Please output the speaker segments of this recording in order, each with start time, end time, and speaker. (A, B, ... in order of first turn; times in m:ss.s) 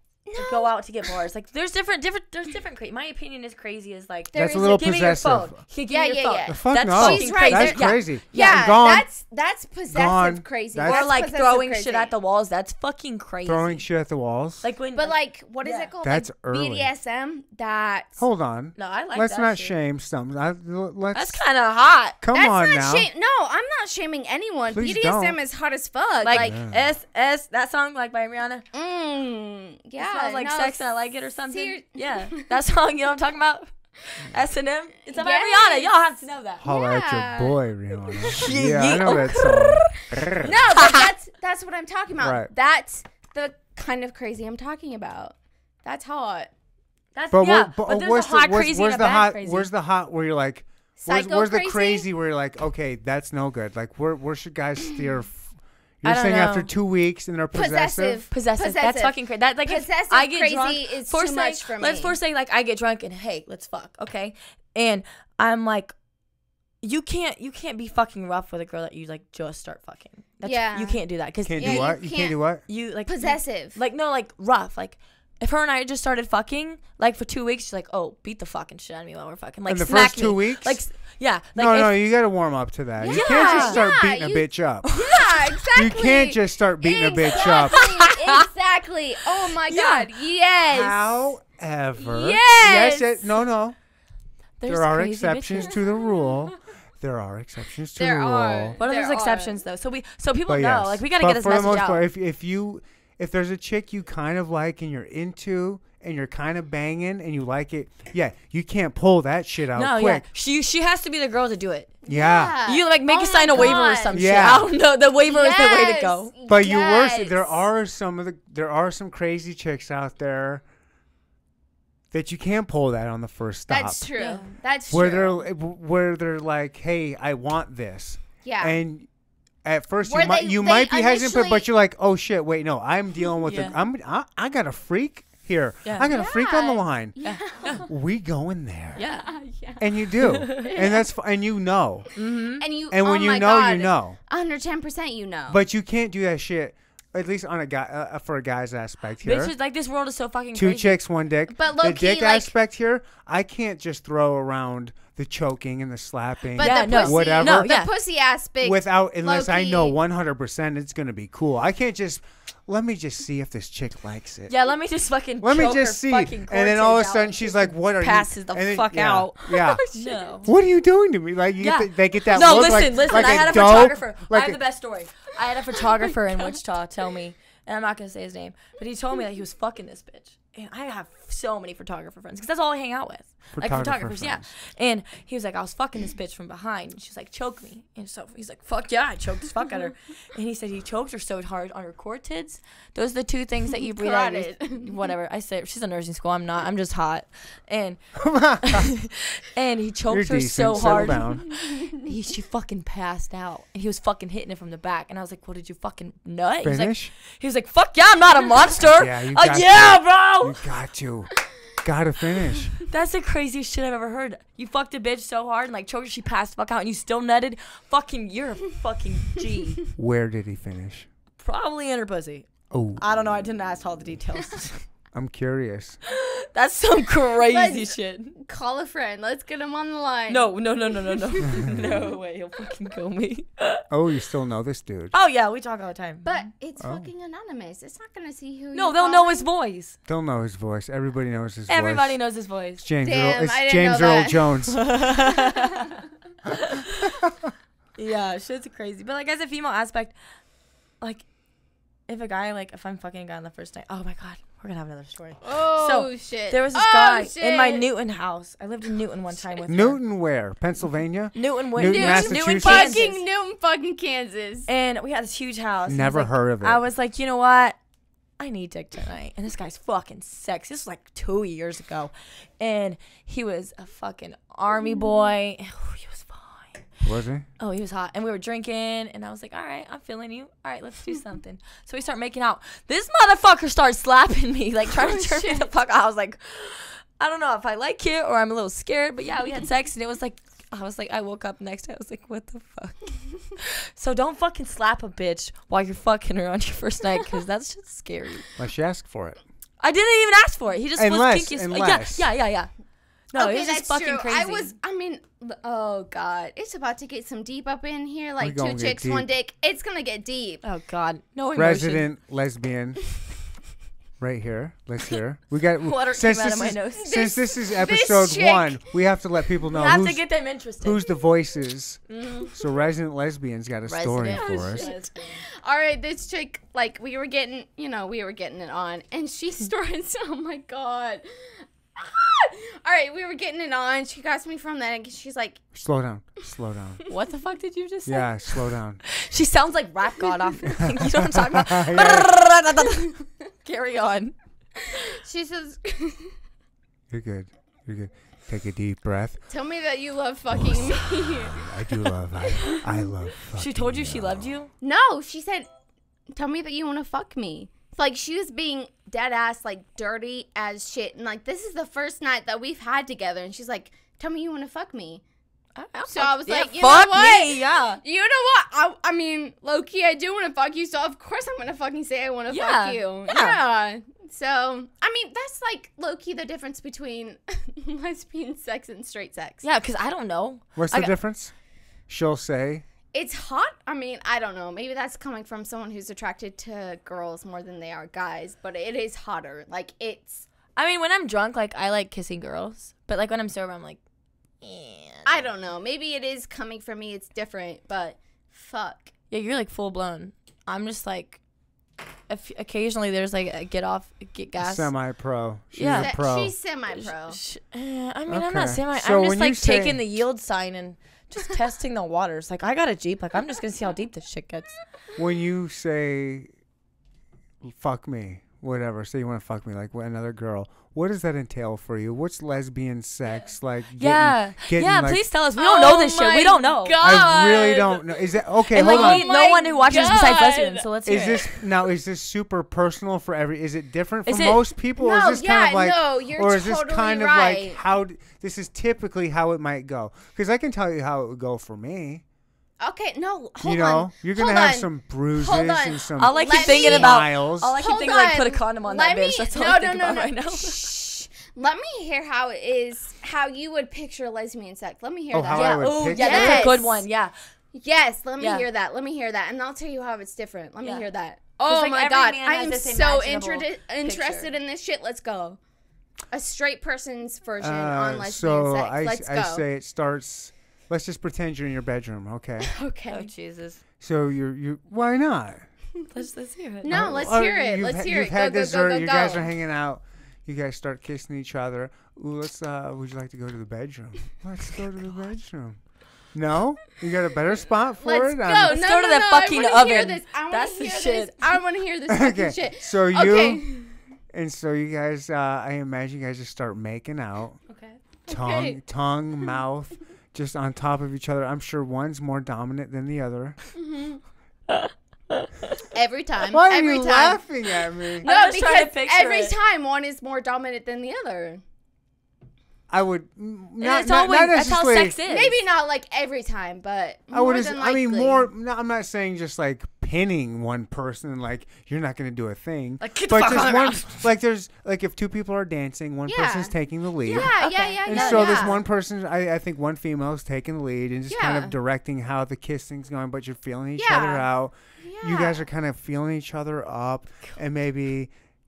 0:00.3-0:01.2 A
0:00.4-0:08.7 B
0:04.3-0:04.8 A
0:04.3-0:05.6 C
0:05.9-0:12.1 A
0:06.5-0:09.1 C
0:09.9-0:11.0 C
0:10.9-0:13.8 B
0:13.5-0:14.7 C
0:14.6-0:15.9 B
0:15.0-0:18.2 A
0:16.0-0:16.9 C
0:18.2-0:21.4 C
0:18.8-0:19.7 B
0:21.1-0:22.2 B
0:22.2-0:23.1 C
0:22.3-0:26.6 A
0:24.7-0:25.4 C
0:26.2-0:28.7 B
0:26.3-0:26.9 C
0:28.7-0:30.9 A
0:30.0-0:36.6 B
0:31.5-0:32.5 A
0:35.1-0:35.9 A
0:36.6-0:37.6 A
0:36.6-0:40.6 C
0:38.2-0:41.1 B
0:40.4-0:46.5 A
0:42.2-0:42.5 C
0:47.2-0:49.7 B
0:47.3-0:58.2 C
0:51.0-0:52.1 A
0:56.0-0:56.7 B
0:57.5-1:02.2 A
0:58.3-1:05.9 B
1:06.8-1:11.9 B
1:10.4-1:11.0 A
1:11.4-1:12.6 C
1:11.6-1:12.4 A
1:12.7-1:22.1 B
1:13.1-1:13.8 A
1:19.7-1:20.8 C
1:21.6-1:24.9 C
1:23.0-1:31.0 A
1:23.0-1:23.8 B
1:24.9-1:25.6 B
1:25.8-1:27.8 C
1:27.3-1:28.5 B
1:29.5-1:30.1 B
1:30.7-1:33.8 C
1:32.0-1:33.2 A
1:34.6-1:35.9 B
1:34.7-1:38.8 C
1:38.0-1:39.6 A
1:38.8-1:42.0 B
1:40.5-1:50.3 C
1:49.7-1:52.0 B
1:52.1-1:54.6 A
1:52.1-1:52.6 C
1:52.6-1:56.3 B
1:53.6-1:54.7 C
1:55.2-1:57.6 A
1:56.5-2:00.6 C
2:02.1-2:04.1 C
2:03.7-2:05.4 A
2:04.2-2:04.5 B
2:04.9-2:09.1 C
2:08.4-2:08.8 A
2:09.6-2:17.2 C
2:10.1-2:11.7 A
2:13.4-2:13.8 B
2:15.8-2:16.1 B
2:16.1-2:17.9 A
2:17.2-2:17.9 B
2:17.8-2:19.0 C
2:19.0-2:19.3 B
2:19.0-2:21.0 A
2:19.8-2:22.1 C
2:20.2-2:20.7 B
2:22.2-2:22.7 B
2:22.6-2:25.6 A
2:22.9-2:24.2 C
2:25.5-2:29.5 C
2:29.2-2:31.0 B
2:30.5-2:37.7 C
2:31.5-2:32.5 A
2:36.6-2:40.0 A
2:36.6-2:37.9 B
2:38.6-2:44.5 C
2:44.5-2:50.5 B
2:45.4-2:49.8 C
2:49.5-2:50.5 A
2:50.4-2:54.6 C
2:51.6-3:18.0 B
3:03.5-3:04.5 C
3:13.7-3:15.1 A
3:18.2-3:18.9 C
3:18.6-3:30.6 B
3:20.1-3:21.5 C
3:20.9-3:22.1 A
3:26.6-3:27.1 C
3:28.8-3:32.8 C
3:32.8-3:39.8 B
3:40.0-3:41.1 C
3:41.4-3:44.8 B
3:42.7-3:43.0 C
3:45.1-3:46.0 C
3:46.1-3:48.4 B
3:47.4-3:51.8 A
3:50.3-3:53.8 B
3:51.5-3:51.8 C
3:53.9-3:55.1 C
3:55.1-3:56.4 B
3:56.2-3:59.5 A
3:56.8-3:57.1 C
3:58.7-4:00.0 B
4:00.1-4:02.2 C
4:01.7-4:02.8 B
4:02.8-4:04.8 C
4:03.0-4:04.6 A
4:04.7-4:07.2 B
4:05.2-4:06.0 A
4:08.0-4:10.2 B
4:12.1-4:20.0 B
4:15.4-4:17.9 A
4:19.7-4:23.0 C
4:21.3-4:23.2 B
4:21.8-4:24.7 A
4:24.7-4:27.8 B
4:25.9-4:26.8 C
4:28.4-4:36.9 B
4:37.0-4:37.5 C
4:37.6-4:58.5 B
4:44.9-4:45.7 A
4:58.6-4:59.4 C
4:59.8-5:02.7 B
5:01.0-5:02.2 C
5:03.3-5:04.7 B
5:03.3-5:10.6 A
5:08.4-5:09.3 C
5:10.6-5:12.1 B
5:11.6-5:13.0 C
5:14.2-5:20.2 C
5:15.8-5:17.2 B
5:17.0-5:18.8 A
5:19.7-5:21.1 B
5:20.8-5:24.9 C
5:22.1-5:22.5 B
5:23.9-5:25.4 B
5:24.3-5:35.6 A
5:35.7-5:37.0 C
5:37.1-5:44.3 B
5:38.1-5:39.0 C
5:40.7-5:42.3 C
5:44.8-5:46.3 A
5:47.1-5:49.4 C
5:49.5-5:51.9 A
5:50.6-5:54.5 C
5:53.5-5:54.7 B
5:54.8-5:55.7 A
5:56.3-6:05.2 A
6:05.8-6:08.0 B
6:06.1-6:19.6 A
6:12.5-6:13.6 B
6:19.6-6:21.1 B
6:20.8-6:21.5 C
6:22.1-6:22.8 C
6:23.1-6:30.5 A
6:30.8-6:34.0 B
6:34.6-6:35.5 B
6:35.2-6:39.1 A
6:39.3-6:41.4 B
6:42.3-6:44.9 B
6:44.6-6:46.5 C
6:45.8-6:46.1 B
6:45.9-6:47.4 A
6:46.9-6:54.8 B
6:48.3-6:50.1 C
6:55.2-6:56.5 C
6:57.6-7:05.2 C
7:04.0-7:07.1 B
7:05.6-7:10.9 A
7:07.0-7:09.3 C
7:08.7-7:11.5 B
7:11.1-7:22.2 C
7:14.3-7:14.7 B
7:15.0-7:17.8 A
7:22.8-7:37.1 A
7:23.6-7:27.8 C
7:26.2-7:30.9 B
7:35.3-7:36.8 C
7:35.5-7:37.3 B
7:37.7-7:45.6 A
7:38.4-7:38.7 B
7:40.8-7:41.1 B
7:41.6-7:44.5 B
7:46.3-7:49.6 A
7:47.6-7:52.7 C
7:52.6-7:53.3 A
7:53.1-7:53.8 B
7:54.0-7:55.6 C
7:56.1-7:57.0 B
7:56.8-7:59.5 A
7:56.9-8:05.8 C
8:06.3-8:08.8 C
8:08.0-8:14.0 A
8:08.7-8:11.5 B
8:12.1-8:13.6 C
8:14.3-8:17.6 C
8:17.7-8:18.0 B
8:18.3-8:18.8 A
8:18.3-8:23.6 C
8:23.8-8:24.2 A
8:24.7-8:25.8 B
8:25.9-8:27.4 A
8:26.5-8:28.3 C
8:28.2-8:31.6 A
8:28.2-8:29.6 B
8:32.9-8:35.2 C
8:33.8-8:35.6 B
8:35.2-8:38.5 A
8:37.3-8:47.6 C
8:43.0-8:44.2 B
8:46.3-8:48.8 A
8:47.3-8:48.8 B
8:48.1-8:58.3 C
8:51.3-8:51.7 A
8:54.0-8:54.5 A
8:55.0-8:55.7 A